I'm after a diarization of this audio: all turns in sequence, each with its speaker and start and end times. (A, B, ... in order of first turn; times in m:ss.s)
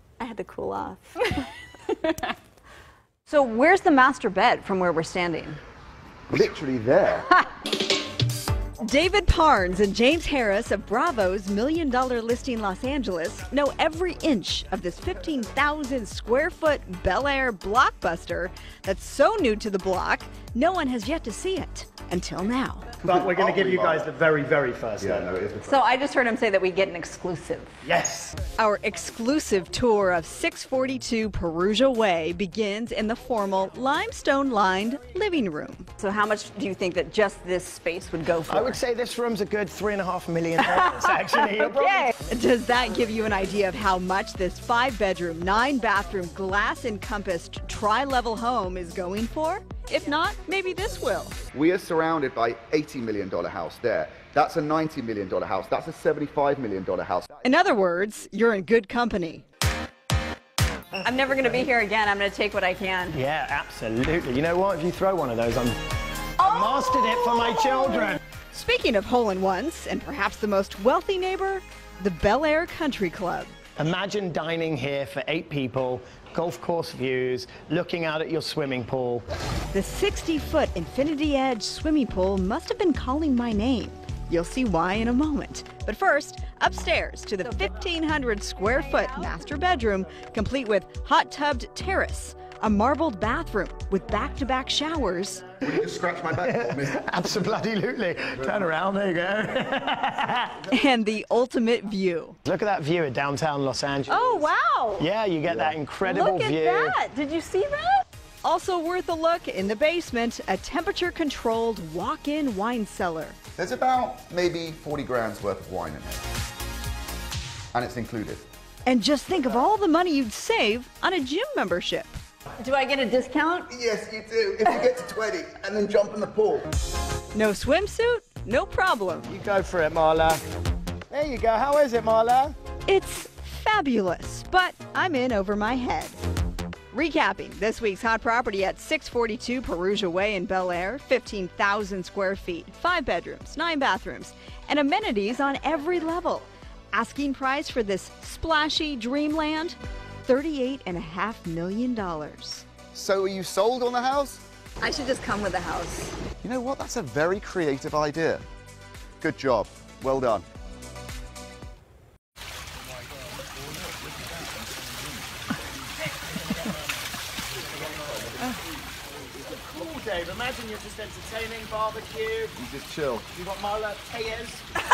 0:00.2-0:01.4 A
0:03.3-0:05.6 A
0:06.3-0:07.3 B
0:08.8-0:22.9 A
0:23.0-0:25.3 C
0:23.0-0:24.1 B
0:25.0-0:25.8 B
0:25.6-0:27.7 D
0:26.2-0:27.0 A
0:27.8-0:28.3 C
0:28.6-0:38.6 A
0:38.5-0:42.1 C
0:41.8-0:42.1 D
0:42.1-0:51.4 A
0:51.5-0:57.4 B
0:57.4-0:59.4 A
1:01.0-1:01.8 D
1:01.0-1:03.1 A
1:03.1-1:05.8 C
1:06.4-1:08.2 C
1:08.5-1:13.5 A
1:13.8-1:19.2 C
1:19.7-1:35.5 A
1:35.6-1:37.0 B
1:36.4-1:40.6 C
1:40.7-1:42.4 A
1:42.4-1:47.0 C
1:44.1-1:45.0 A
1:45.4-1:45.8 B
1:46.0-1:48.0 D
1:48.4-1:53.4 A
1:53.6-1:56.2 B
1:57.7-1:58.4 B
1:58.8-2:02.2 A
2:02.6-2:03.7 D
2:03.7-2:06.7 B
2:07.3-2:09.3 A
2:09.3-2:10.4 C
2:11.1-2:12.5 C
2:12.8-2:16.2 A
2:16.9-2:32.6 A
2:32.9-2:34.4 B
2:34.8-2:36.1 A
2:35.0-2:35.9 D
2:36.4-2:38.4 B
2:39.2-2:40.4 B
2:43.2-2:43.9 C
2:44.1-2:45.0 B
2:46.1-2:46.8 C
2:47.7-2:48.4 C
2:47.8-2:48.6 B
2:49.2-2:52.6 C
2:52.6-2:53.3 B
2:53.3-2:54.7 C